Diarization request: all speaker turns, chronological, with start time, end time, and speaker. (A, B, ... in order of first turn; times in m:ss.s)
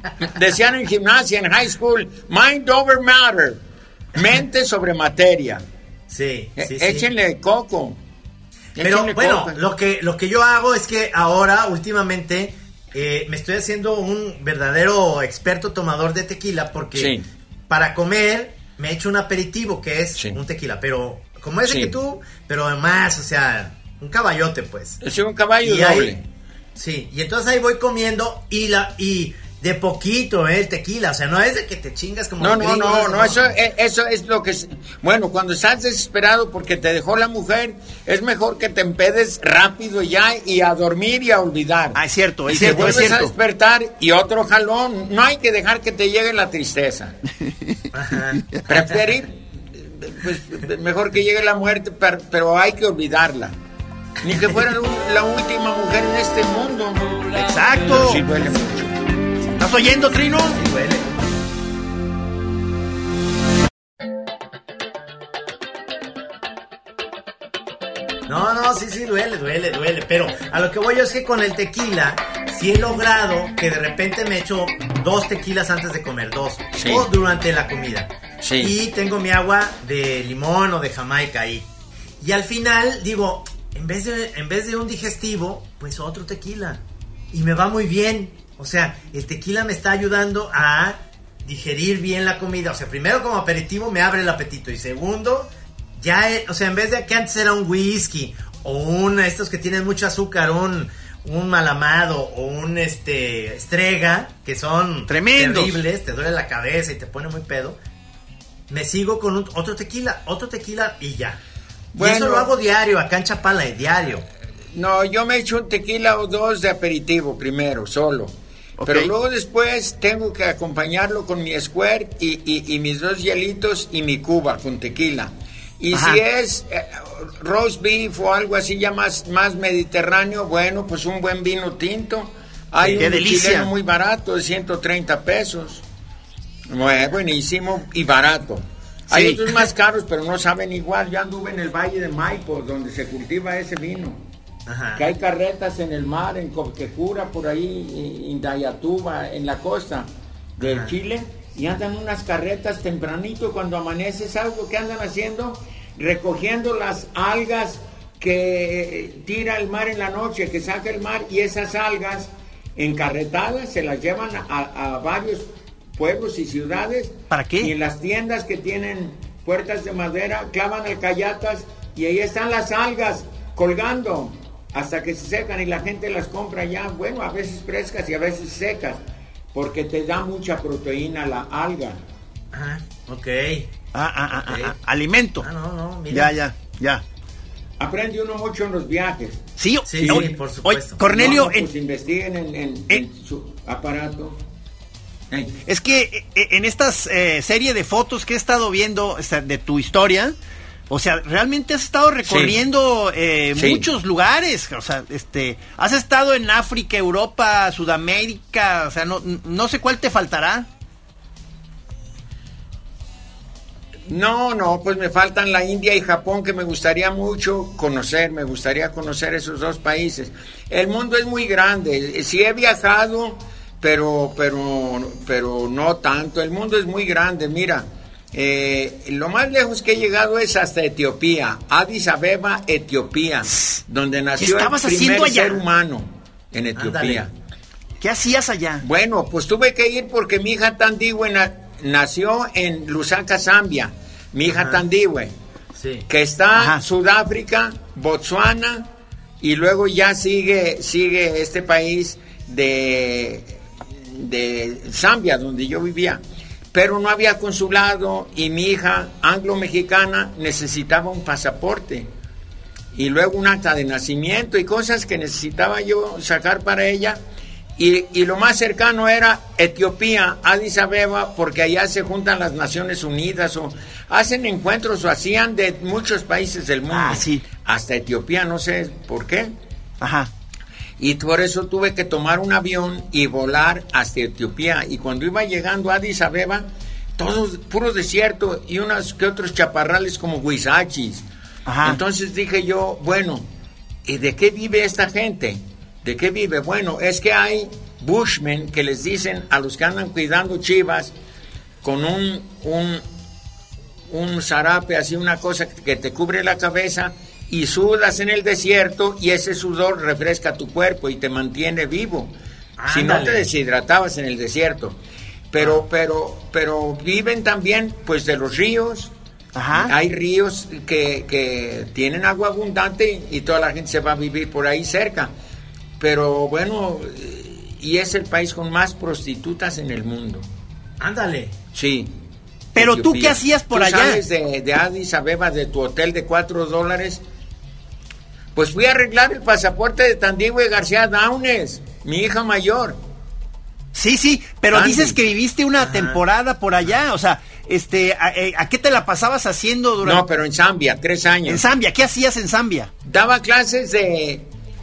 0:00.2-0:03.6 A
0:04.1-0:05.6 A
0:06.1-0:07.1 B
0:06.6-0:08.0 A
0:08.8-0:09.6 A
0:08.8-0:17.2 B
0:17.0-0:17.2 A
0:17.7-0:25.0 B
0:21.7-0:21.9 A
0:25.0-0:26.2 A
0:25.6-0:26.2 B
0:26.8-0:33.6 B
0:32.4-0:47.2 A
0:42.0-0:43.3 C
0:47.9-0:48.4 B
0:48.7-0:53.5 A
0:54.2-0:59.0 A
0:57.4-0:58.2 C
0:59.6-1:00.6 C
1:00.5-1:01.3 B
1:08.3-1:21.7 B
1:16.7-1:17.1 A
1:18.4-1:18.7 A
1:22.2-1:26.8 B
1:27.3-1:47.8 B
1:45.1-1:45.8 C
1:48.7-1:51.4 B
1:51.9-1:52.5 A
1:52.0-1:54.2 B
1:54.7-2:15.8 A
1:58.8-1:59.1 C
2:05.9-2:06.2 C
2:12.8-2:13.7 C
2:16.7-2:24.2 A
2:19.1-2:19.7 C
2:24.7-2:25.1 B
2:25.0-2:59.0 A
2:30.6-2:30.9 B
2:47.3-2:47.7 C
2:59.5-3:02.0 A
3:02.5-3:03.7 B
3:03.9-3:05.5 C
3:04.5-3:04.8 A
3:05.4-3:06.4 B
3:06.1-3:07.0 C
3:07.8-3:09.4 A
3:09.6-3:11.7 C
3:09.9-3:11.0 B
3:10.0-3:10.3 A
3:11.0-3:14.4 A
3:15.3-3:15.6 A
3:15.7-3:20.3 C
3:20.9-3:30.7 C
3:22.3-3:22.6 A
3:23.6-3:23.9 A
3:34.1-3:57.3 A
3:54.4-3:55.6 C
3:56.8-3:57.3 B
3:58.0-3:58.8 C
3:58.8-4:05.3 A
4:04.5-4:04.8 B
4:05.8-4:06.0 B
4:06.1-4:08.9 A
4:06.6-4:06.8 C
4:09.4-4:16.2 A
4:16.7-4:22.1 A
4:22.9-4:27.2 A
4:27.8-4:39.5 A
4:36.9-4:37.4 C
4:40.0-4:40.3 C
4:41.0-4:51.3 A
4:51.7-4:52.0 C
4:51.8-4:53.5 A
4:54.1-5:01.1 A
5:01.8-5:03.0 A
5:04.1-5:12.3 A
5:12.8-5:13.5 B
5:12.9-5:15.0 A
5:15.5-5:19.1 A
5:19.6-5:19.9 C
5:19.7-5:25.3 A
5:26.0-5:30.5 A
5:31.0-5:31.5 B
5:31.7-5:32.1 A
5:32.8-5:37.2 A
5:32.8-5:34.2 C
5:38.6-5:43.0 A
5:43.9-5:50.2 C
5:44.7-5:45.2 A
5:45.8-5:46.2 B
5:50.0-5:51.6 A
5:51.5-5:52.9 C
5:53.0-5:54.5 A